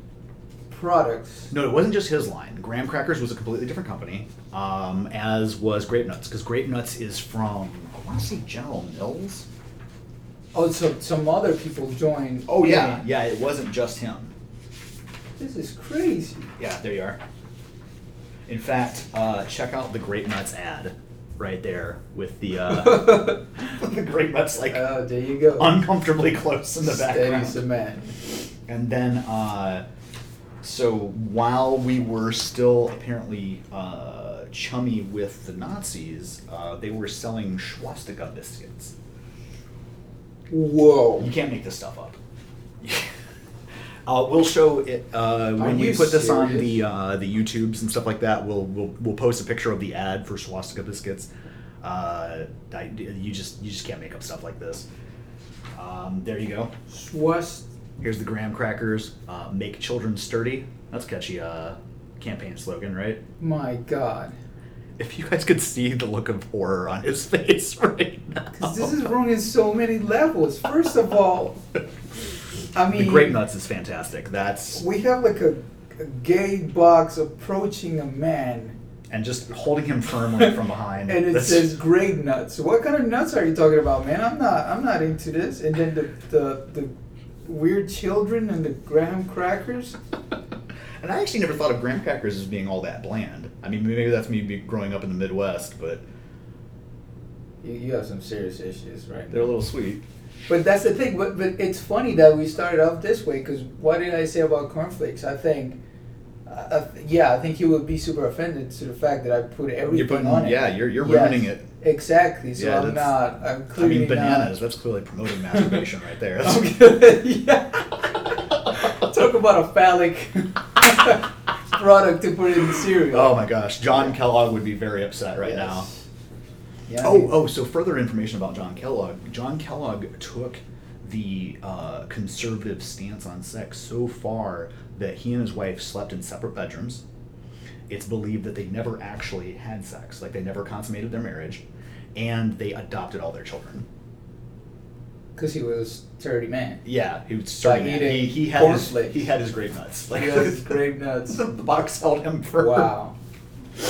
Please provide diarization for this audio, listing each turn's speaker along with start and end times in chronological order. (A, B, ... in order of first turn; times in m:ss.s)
0:00.7-0:01.5 A
0:01.5-0:09.5 B
0:10.5-0:13.0 A
0:12.5-0:14.3 B
0:15.4-0:16.5 A
0:16.6-0:17.2 B
0:18.5-0:24.8 B
0:22.8-0:23.4 A
0:24.7-0:25.8 A
0:25.6-0:27.6 B
0:26.8-0:28.2 A
0:28.7-0:29.8 B
0:30.6-0:38.9 B
0:40.5-0:41.3 A
0:41.2-0:42.2 B
0:42.8-0:43.1 B
0:44.1-0:51.3 B
0:45.6-0:46.8 A
0:51.8-0:54.9 B
0:55.8-0:56.7 B
0:56.9-0:57.7 A
0:58.0-1:03.2 B
1:03.4-1:04.4 A
1:05.0-1:08.9 B
1:08.5-1:11.6 A
1:12.8-1:13.4 A
1:12.9-1:14.8 B
1:14.8-1:18.8 A
1:19.1-1:21.7 B
1:21.1-1:26.9 A
1:27.4-1:30.0 A
1:31.0-1:36.0 B
1:37.6-1:39.5 A
1:39.3-1:40.0 B
1:40.5-1:45.8 A
1:46.5-1:54.6 A
1:49.9-1:51.7 B
1:52.6-1:53.2 B
1:53.8-1:56.8 B
1:55.5-1:55.8 A
1:56.4-2:03.4 A
2:03.1-2:05.9 B
2:05.4-2:05.9 A
2:06.9-2:07.4 A
2:07.0-2:17.0 B
2:17.9-2:21.6 B
2:22.2-2:23.8 B
2:25.4-2:26.8 A
2:26.8-2:32.9 B
2:27.6-2:29.2 A
2:30.1-2:31.4 A
2:32.6-2:33.2 A